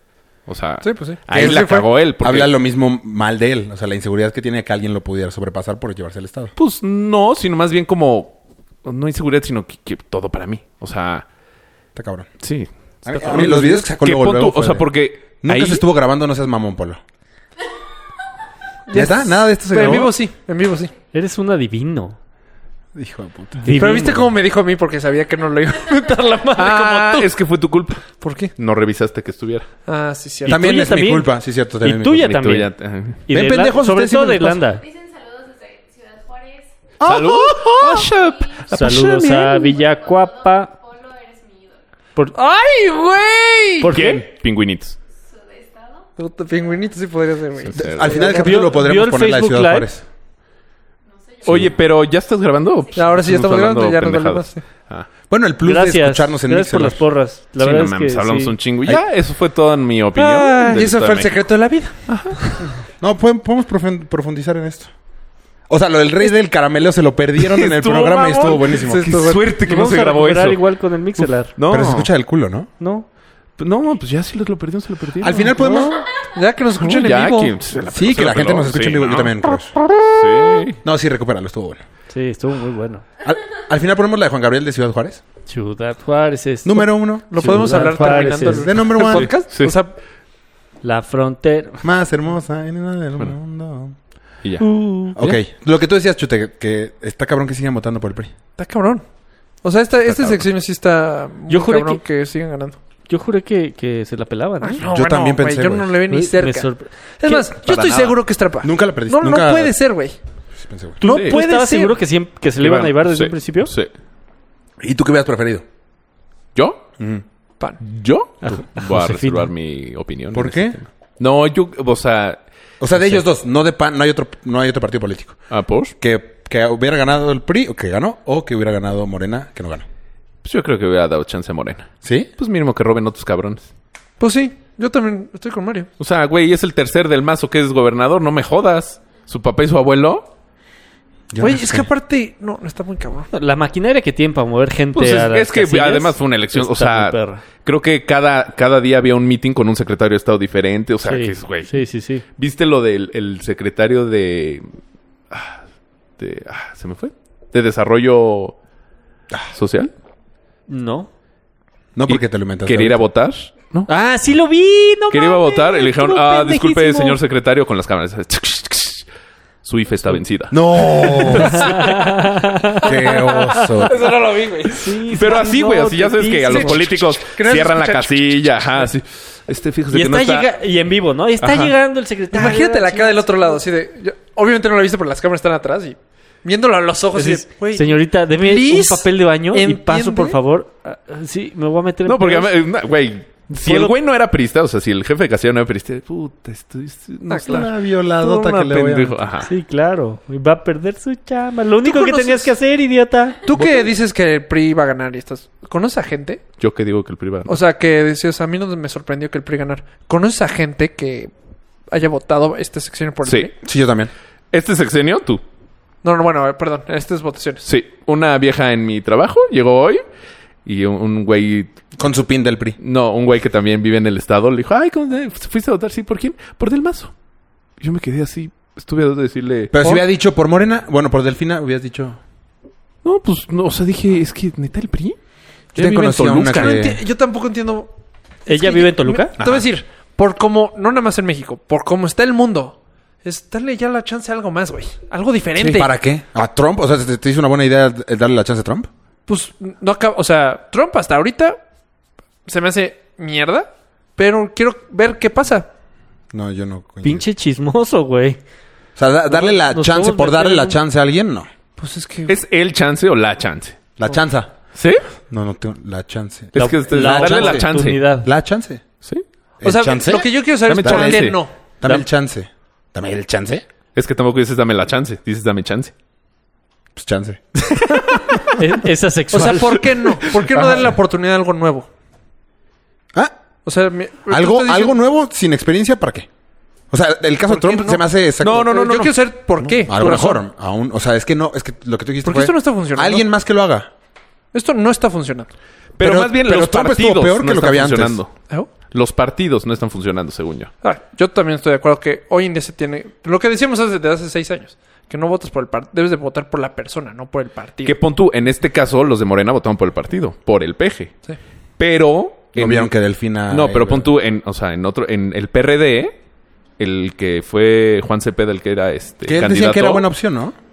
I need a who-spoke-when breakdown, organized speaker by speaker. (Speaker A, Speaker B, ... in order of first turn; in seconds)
Speaker A: 0.5-2.5, 6.5-11.2, 12.4-15.8, 26.6-29.7, 32.2-33.2, 37.0-39.1, 43.9-45.0, 47.6-48.2, 51.4-55.1, 57.6-61.4, 62.1-62.4, 67.4-72.1, 73.6-75.6, 76.8-80.8, 89.0-89.8, 100.0-100.4, 107.6-108.1, 111.1-111.4, 112.6-113.9, 116.5-116.8, 117.8-122.4, 125.5-125.9, 130.4-133.7, 136.0-140.3, 144.9-151.8, 152.3-154.7, 155.3-155.6, 156.2-158.6, 159.5-159.9, 162.1-163.9, 165.1-169.1, 169.6-171.9, 175.1-180.5, 181.4-181.7, 192.0-199.5, 206.6-207.6, 213.2-213.5, 214.5-215.4, 217.6-220.0, 220.6-221.7, 222.8-227.1, 227.8-230.0, 233.0-235.2, 235.7-236.8, 239.4-239.7, 262.3-263.8, 264.7-265.0, 266.5-268.1, 270.7-271.4, 273.9-275.9, 288.4-289.1, 296.0-300.7, 307.8-311.1, 311.8-312.9, 313.5-316.1, 316.8-320.1
Speaker B: 0.8-1.9, 18.9-20.9, 23.7-27.3, 28.2-28.5, 29.9-30.8, 42.3-43.9, 46.2-48.7, 53.0-54.6, 60.1-62.6, 68.7-69.4, 76.3-77.6, 87.3-90.0, 98.6-99.0, 99.6-102.8, 104.6-110.2, 111.0-112.0, 134.2-135.9, 141.4-143.3, 173.6-175.0, 176.5-178.8, 182.3-190.4, 197.3-197.6, 201.8-202.5, 203.4-206.4, 207.4-211.3, 211.9-213.5, 216.0-217.6, 236.3-237.9, 238.4-245.9, 249.3-251.6, 252.4-255.7, 261.8-262.4, 269.6-271.5, 279.3-281.9, 283.6-284.9, 287.5-290.4, 292.2-293.3, 294.5-295.5, 300.8-308.0
Speaker C: 1.3-6.5, 11.9-12.3, 13.0-17.0, 18.9-20.1, 22.9-24.0, 30.4-32.4, 33.3-34.6, 37.0-38.1, 47.7-50.0, 55.3-57.0, 63.0-64.9, 65.7-69.4, 71.7-72.7, 75.2-76.0, 77.9-79.8, 80.8-81.8, 83.2-85.2, 86.6-89.4, 91.8-94.0, 95.1-98.3, 104.9-106.0, 108.6-109.8, 110.5-111.0, 114.8-115.6, 117.0-117.2, 120.3-120.8, 122.8-125.4, 126.0-129.8, 132.0-132.3, 141.3-141.9, 161.9-163.0, 170.5-171.7, 172.8-174.0, 197.4-199.2, 213.6-214.1, 222.0-222.8, 229.7-232.2, 235.7-237.0, 245.6-248.9, 256.3-257.3, 258.9-261.5, 264.0-264.5, 265.3-268.8, 269.6-271.3, 271.8-273.6, 276.9-278.4, 280.5-280.9, 284.3-286.3, 286.9-289.1, 289.6-293.9, 296.0-298.2, 312.5-314.1, 319.2-320.5
Speaker D: 21.1-22.2, 23.6-24.3, 30.4-32.7, 33.3-34.8, 38.7-40.7, 43.8-44.2, 48.2-49.9, 55.6-58.6, 69.5-71.5, 72.8-73.0, 82.1-83.0, 85.5-88.8, 90.8-91.8, 94.6-95.4, 101.5-102.0, 103.1-104.8, 106.1-107.5, 111.0-113.7, 118.4-119.5, 143.3-147.4, 151.0-152.2, 160.7-161.1, 163.9-167.2, 171.5-173.8, 174.7-176.8, 179.9-183.6, 187.1-192.5, 193.6-193.9, 199.4-203.4, 238.5-239.3, 257.0-258.4, 259.3-260.8, 266.5-268.3, 278.6-280.0
Speaker E: 34.7-36.7, 38.0-41.8, 45.1-46.1, 51.0-52.0